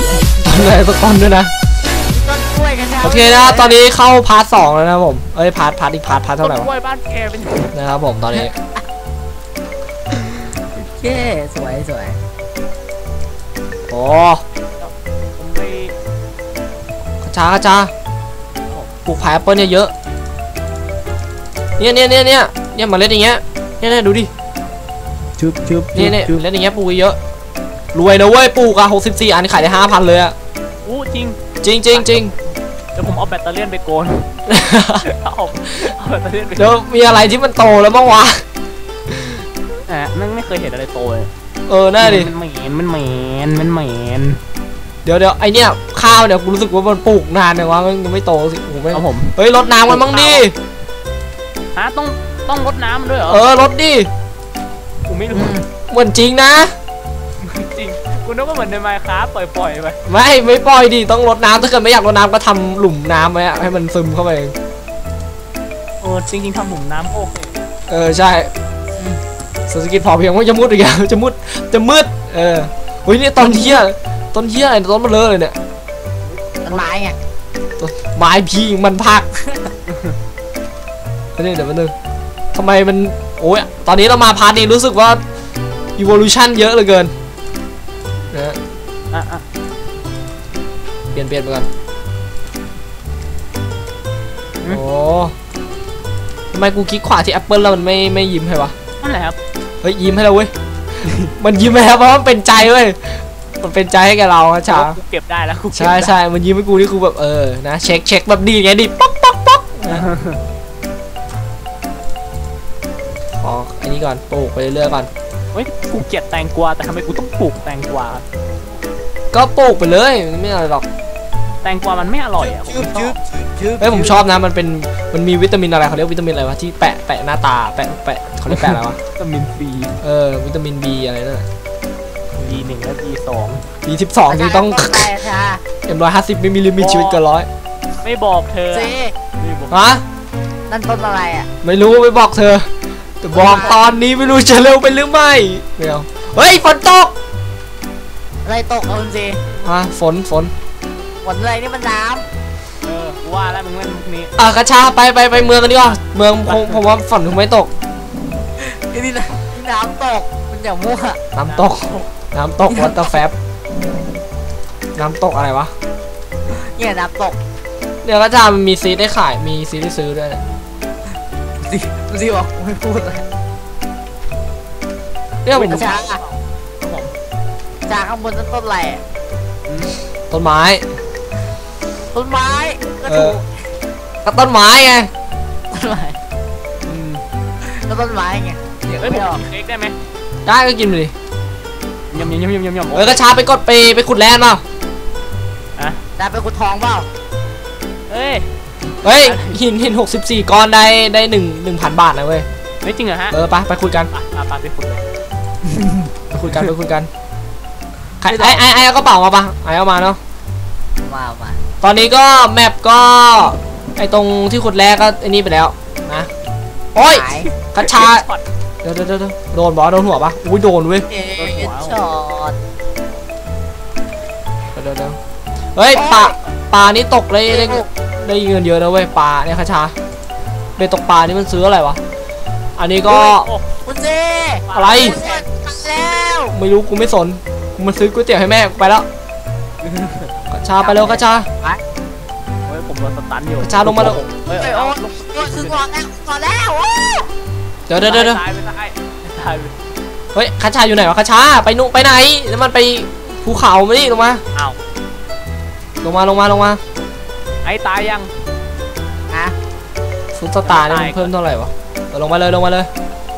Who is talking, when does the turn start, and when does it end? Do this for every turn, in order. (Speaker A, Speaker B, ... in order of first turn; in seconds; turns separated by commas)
Speaker A: 0.4-1.5, Speaker B: 1.9-3.8, Speaker A: 3.0-6.7, Speaker C: 6.1-7.8, Speaker A: 7.7-8.5, Speaker B: 10.1-12.2, Speaker A: 13.9-14.4, Speaker C: 14.8-15.9, Speaker A: 17.2-17.9, Speaker A: 19.1-19.9, Speaker A: 21.8-24.3, Speaker B: 25.4-26.4, Speaker A: 25.9-27.2, Speaker A: 27.9-30.4, Speaker C: 30.9-31.4, Speaker A: 31.6-32.3, Speaker C: 31.9-32.3, Speaker C: 33.0-34.3, Speaker A: 34.5-35.1, Speaker C: 35.0-36.8, Speaker A: 36.6-38.4, Speaker A: 39.1-39.4, Speaker C: 39.9-41.3, Speaker A: 41.7-42.3, Speaker C: 42.0-44.4, Speaker A: 45.0-50.5, Speaker C: 48.9-49.4, Speaker C: 49.9-50.4, Speaker C: 51.8-53.4, Speaker A: 53.3-54.1, Speaker C: 55.1-55.6, Speaker B: 55.3-55.7, Speaker A: 55.9-56.7, Speaker C: 57.4-60.0, Speaker A: 60.1-64.5, Speaker C: 66.0-67.6, Speaker A: 67.9-68.5, Speaker B: 68.9-69.2, Speaker A: 69.7-75.6, Speaker B: 76.7-77.2, Speaker A: 77.8-79.3, Speaker B: 79.4-79.7, Speaker C: 79.9-80.2, Speaker A: 81.4-81.9, Speaker A: 82.5-85.2, Speaker A: 86.0-87.1, Speaker A: 88.3-88.6, Speaker C: 89.1-89.4, Speaker A: 91.1-91.7, Speaker A: 94.7-95.3, Speaker A: 96.5-98.7, Speaker C: 99.0-99.4, Speaker A: 99.8-100.5, Speaker C: 101.0-101.3, Speaker A: 101.4-105.0, Speaker C: 104.7-106.2, Speaker A: 105.7-110.1, Speaker C: 109.9-110.4, Speaker A: 113.4-115.1, Speaker C: 115.5-118.2, Speaker A: 119.3-120.9, Speaker C: 121.6-123.2, Speaker B: 122.4-124.2, Speaker A: 123.8-129.0, Speaker C: 128.5-130.0, Speaker A: 130.0-131.5, Speaker B: 132.4-132.7, Speaker C: 132.4-133.7, Speaker A: 133.8-135.1, Speaker B: 134.3-135.6, Speaker A: 135.9-137.5, Speaker C: 136.8-137.2, Speaker C: 138.0-139.8, Speaker B: 138.7-139.1, Speaker A: 139.7-140.0, Speaker B: 140.7-141.5, Speaker A: 141.6-142.7, Speaker A: 143.2-147.2, Speaker B: 143.3-143.8, Speaker B: 148.4-149.4, Speaker A: 149.7-150.5, Speaker B: 151.2-152.3, Speaker C: 152.8-154.3, Speaker A: 154.4-157.7, Speaker C: 156.5-156.8, Speaker B: 158.6-161.2, Speaker A: 161.3-163.3, Speaker C: 161.5-162.1, Speaker B: 162.7-163.2, Speaker A: 164.9-165.7, Speaker B: 166.5-167.4, Speaker A: 168.0-170.4, Speaker B: 171.7-173.2, Speaker A: 175.4-175.9, Speaker C: 175.5-177.1, Speaker B: 175.7-176.2, Speaker B: 177.9-179.0, Speaker C: 179.7-179.9, Speaker A: 180.3-180.8, Speaker B: 182.1-183.5, Speaker A: 183.1-183.4, Speaker A: 184.2-185.1, Speaker B: 185.7-186.2, Speaker C: 186.8-187.2, Speaker B: 187.6-189.4, Speaker C: 189.0-190.0, Speaker A: 190.5-191.1, Speaker C: 192.1-193.2, Speaker A: 192.9-194.6, Speaker B: 196.2-197.1, Speaker C: 198.1-198.5, Speaker A: 199.0-202.5, Speaker C: 199.1-199.6, Speaker C: 202.8-203.4, Speaker A: 203.3-204.1, Speaker C: 204.1-205.0, Speaker B: 205.7-206.0, Speaker A: 206.3-207.1, Speaker A: 208.2-210.2, Speaker B: 208.2-208.7, Speaker B: 211.0-211.6, Speaker A: 211.8-216.3, Speaker A: 216.9-218.2, Speaker B: 217.0-217.5, Speaker C: 217.7-218.4, Speaker A: 218.8-221.1, Speaker B: 221.1-222.6, Speaker C: 221.4-222.0, Speaker A: 224.8-225.2, Speaker A: 225.8-229.9, Speaker B: 225.9-226.3, Speaker B: 227.5-227.9, Speaker A: 230.8-232.0, Speaker A: 232.8-233.5, Speaker C: 233.1-233.7, Speaker B: 233.8-236.6, Speaker C: 234.7-235.4, Speaker A: 234.7-235.2, Speaker A: 236.5-239.1, Speaker C: 239.8-240.3, Speaker A: 240.5-241.5, Speaker B: 240.8-241.8, Speaker C: 242.7-245.8, Speaker A: 243.6-244.2, Speaker B: 244.6-247.3, Speaker A: 247.9-248.4, Speaker C: 248.0-249.7, Speaker A: 250.3-254.4, Speaker A: 256.0-256.8, Speaker C: 257.6-258.3, Speaker B: 259.3-259.6, Speaker A: 260.4-262.9, Speaker C: 260.6-261.3